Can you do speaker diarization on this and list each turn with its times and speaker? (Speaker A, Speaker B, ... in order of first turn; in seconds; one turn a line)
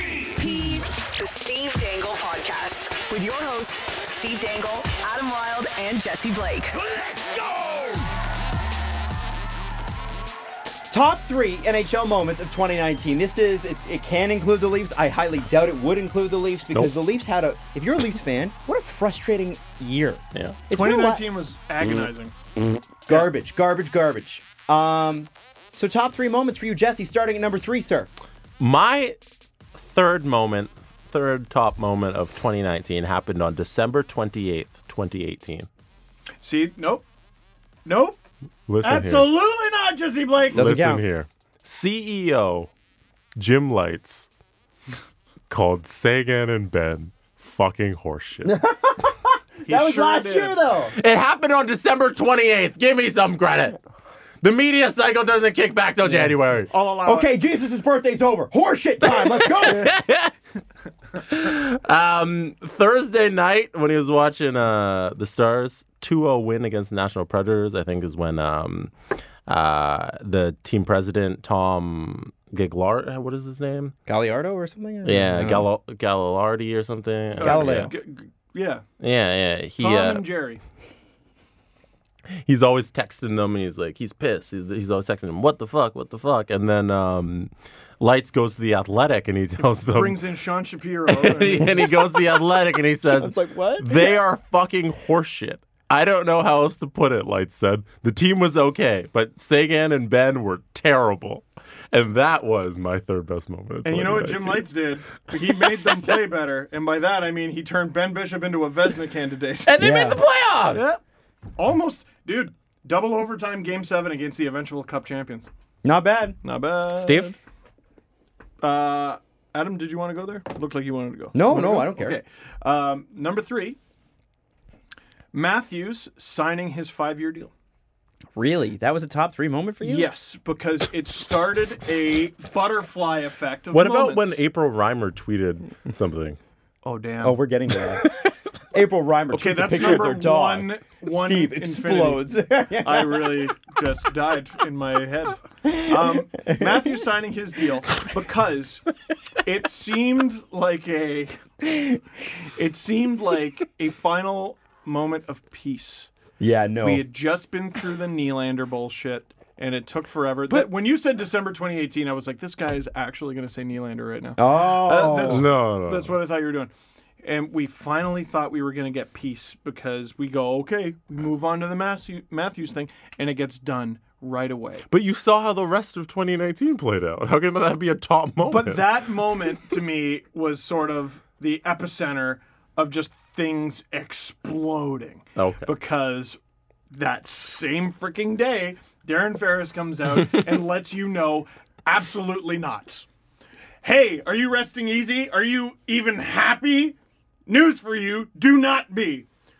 Speaker A: 0.2-6.9
Speaker B: 10.9-21.3
Speaker C: 20.3-20.6
Speaker D: 20.7-22.3
Speaker B: 23.1-28.1
Speaker C: 28.6-29.2
Speaker C: 29.7-35.7
Speaker D: 36.4-37.0
Speaker D: 37.8-38.2
Speaker C: 38.7-39.3
Speaker D: 38.8-40.7
Speaker B: 40.5-41.0
Speaker C: 40.5-42.7
Speaker C: 43.4-44.3
Speaker C: 45.5-48.5
Speaker B: 48.4-50.9
Speaker D: 49.6-50.6
Speaker C: 50.8-53.8
Speaker C: 54.4-56.7
Speaker B: 56.1-56.3
Speaker D: 56.7-57.3
Speaker B: 57.0-59.9
Speaker C: 59.0-60.3
Speaker C: 61.2-68.9
Speaker C: 69.5-73.9
Speaker B: 74.1-75.7
Speaker C: 75.0-77.9
Speaker D: 77.4-78.8
Speaker B: 77.4-77.9
Speaker C: 79.0-80.2
Speaker D: 79.8-80.6
Speaker C: 82.4-90.2
Speaker D: 89.9-92.1
Speaker C: 91.1-104.7
Speaker B: 93.0-94.2
Speaker D: 103.8-109.8
Speaker C: 109.7-110.9
Speaker B: 109.8-110.2
Speaker D: 110.7-111.0
Speaker D: 111.5-115.5
Speaker B: 115.8-116.4
Speaker D: 116.4-117.3
Speaker C: 116.9-117.3
Speaker D: 118.6-123.8
Speaker B: 121.3-122.2
Speaker D: 125.3-127.5
Speaker B: 128.3-130.1
Speaker D: 129.8-134.4
Speaker C: 133.7-136.4
Speaker D: 136.8-137.4
Speaker B: 137.2-138.1
Speaker B: 138.7-143.5
Speaker D: 139.3-148.8
Speaker B: 145.6-146.9
Speaker D: 149.4-151.3
Speaker D: 152.6-156.1
Speaker B: 156.4-157.0
Speaker D: 156.8-166.7
Speaker B: 164.4-165.5
Speaker C: 165.3-166.2
Speaker D: 167.2-174.8
Speaker C: 174.9-179.4
Speaker D: 178.4-186.4
Speaker C: 185.3-185.7
Speaker D: 186.9-193.1
Speaker C: 190.2-190.4
Speaker D: 193.8-199.3